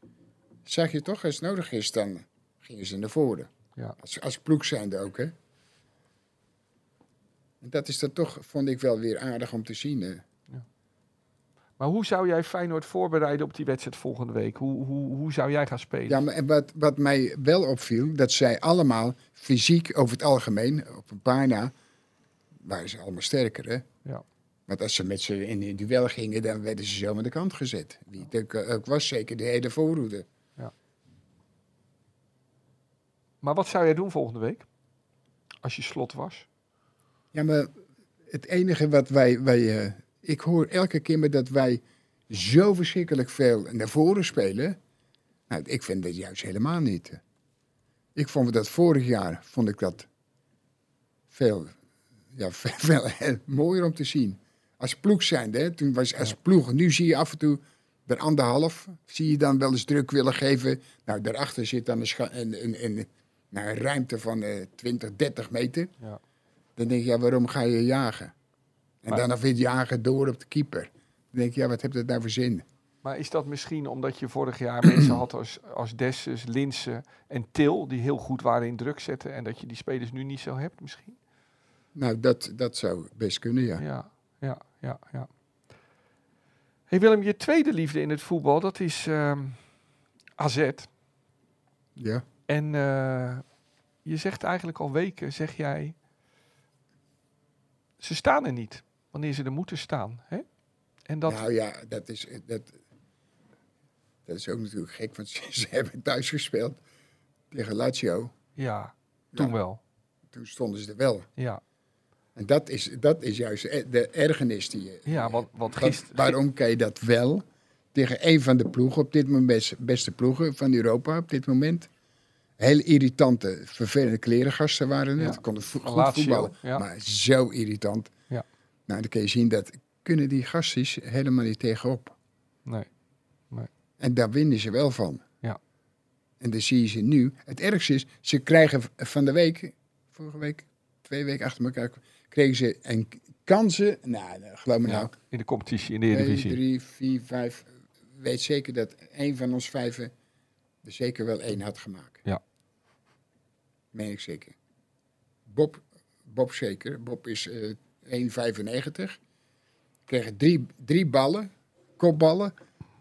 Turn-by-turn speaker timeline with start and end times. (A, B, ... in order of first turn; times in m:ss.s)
0:00.7-0:05.3 A
0:07.6-0:10.2 A
0:11.8-0:16.2 B
0:16.1-0:21.7 A
0:22.6-0:23.8 A
0:24.7-0:30.3 A
0:33.4-0:34.7 B
0:35.6-0:36.5 B
0:37.3-0:37.7 A
0:38.3-0:44.8 A
0:45.5-0:47.2 A
0:48.2-0:50.1 A
0:51.3-0:51.8 A
0:52.3-1:05.9 A
1:06.8-1:08.3 A
1:09.0-1:12.7 A
1:13.0-1:21.2 B
1:14.8-1:15.2 A
1:22.0-1:23.8 A
1:23.8-1:25.3 B
1:26.9-1:29.6 B
1:30.4-1:30.9 B
1:32.0-1:32.2 A
1:32.5-1:33.4 B
1:34.0-1:36.0 B
1:38.0-1:40.4 B
1:41.1-1:41.4 B
1:41.3-1:42.8 A
1:44.3-1:46.8 A
1:47.5-1:48.3 A
1:48.6-1:49.8 B
1:50.3-1:51.3 A
1:52.4-2:01.9 A
1:55.1-1:56.4 B
2:02.6-2:08.1 A
2:05.2-2:06.8 B
2:08.9-2:12.2 A
2:14.0-2:15.2 A
2:16.4-2:25.1 A
2:24.8-2:26.6 B
2:26.1-2:30.1 A
2:30.8-2:32.2 A
2:33.9-2:34.6 A
2:35.5-2:39.2 A
2:40.1-2:42.5 A